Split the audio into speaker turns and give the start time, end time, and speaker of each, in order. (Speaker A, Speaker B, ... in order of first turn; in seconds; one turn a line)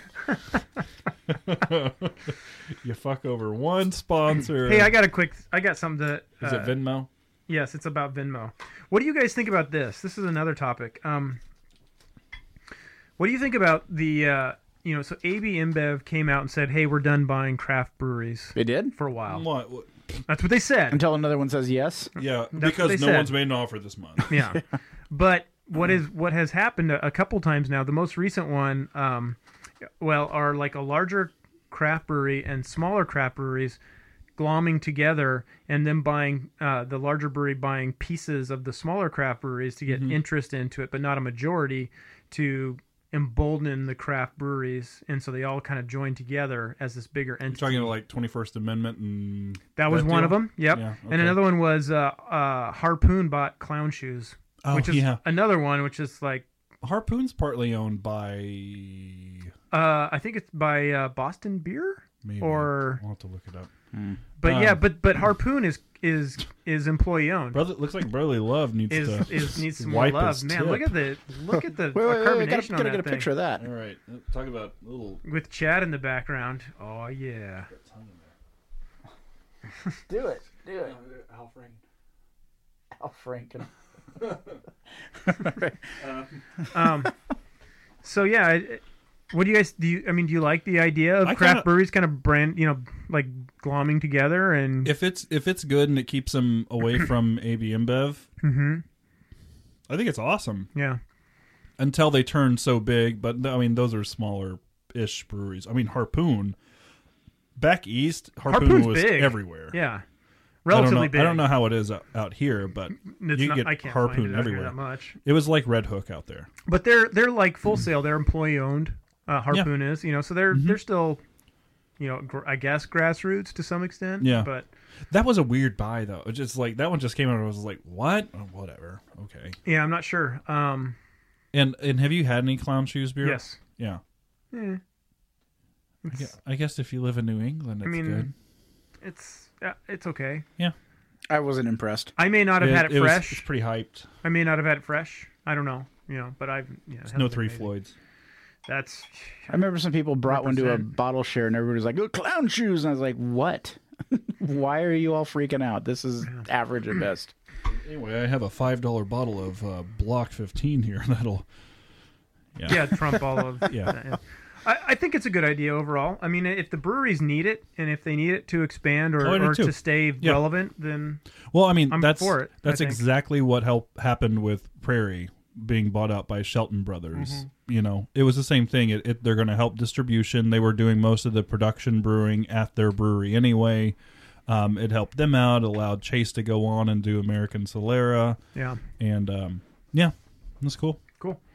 Speaker A: 0.3-0.6
Speaker B: 1.3-4.9
Speaker A: 4.6-6.8
Speaker B: 6.4-7.1
Speaker A: 7.5-11.4
Speaker A: 13.2-19.4
Speaker C: 18.5-18.9
Speaker B: 19.2-20.2
Speaker A: 20.3-21.0
Speaker C: 20.9-22.1
Speaker B: 22.1-24.3
Speaker A: 22.5-23.4
Speaker A: 24.3-29.4
Speaker A: 30.0-33.8
Speaker A: 34.4-47.9
Speaker B: 39.9-40.2
Speaker B: 47.5-51.4
Speaker A: 49.8-56.5
Speaker B: 54.6-55.2
Speaker B: 56.8-59.5
Speaker A: 59.7-63.0
Speaker B: 62.2-63.7
Speaker C: 63.9-64.2
Speaker A: 64.4-67.6
Speaker B: 64.4-64.8
Speaker B: 67.5-71.0
Speaker A: 68.9-73.3
Speaker C: 71.9-73.6
Speaker B: 73.6-75.2
Speaker A: 75.2-77.7
Speaker B: 77.7-78.3
Speaker C: 80.1-81.0
Speaker B: 80.8-81.8
Speaker C: 83.0-83.7
Speaker B: 84.2-84.5
Speaker C: 85.2-85.8
Speaker B: 86.0-86.4
Speaker A: 86.7-87.1
Speaker A: 88.0-94.9
Speaker B: 91.2-91.7
Speaker B: 94.8-98.3
Speaker A: 98.4-98.8
Speaker B: 99.9-100.7
Speaker A: 100.7-101.0
Speaker B: 101.8-106.6
Speaker B: 107.5-109.8
Speaker A: 108.5-110.0
Speaker A: 110.6-111.5
Speaker B: 110.7-116.5
Speaker A: 113.0-115.2
Speaker A: 116.7-121.2
Speaker B: 120.5-120.8
Speaker A: 122.0-124.7
Speaker B: 124.2-124.5
Speaker B: 125.1-129.6
Speaker A: 129.7-130.9
Speaker B: 131.5-134.0
Speaker A: 133.2-133.6
Speaker A: 134.5-134.8
Speaker A: 136.0-136.3
Speaker B: 136.1-138.3
Speaker A: 137.8-138.3
Speaker A: 139.0-140.4
Speaker C: 141.3-142.1
Speaker A: 142.2-143.5
Speaker B: 142.6-144.1
Speaker A: 144.2-147.7
Speaker B: 147.1-147.9
Speaker A: 148.7-149.6
Speaker C: 149.5-157.3
Speaker A: 150.3-150.9
Speaker B: 157.6-161.4
Speaker B: 162.6-164.0
Speaker A: 162.7-171.2
Speaker B: 169.2-170.5
Speaker B: 171.5-183.9
Speaker A: 171.9-173.0
Speaker A: 177.1-177.4
Speaker B: 184.5-188.4
Speaker A: 188.5-188.8
Speaker B: 189.0-191.0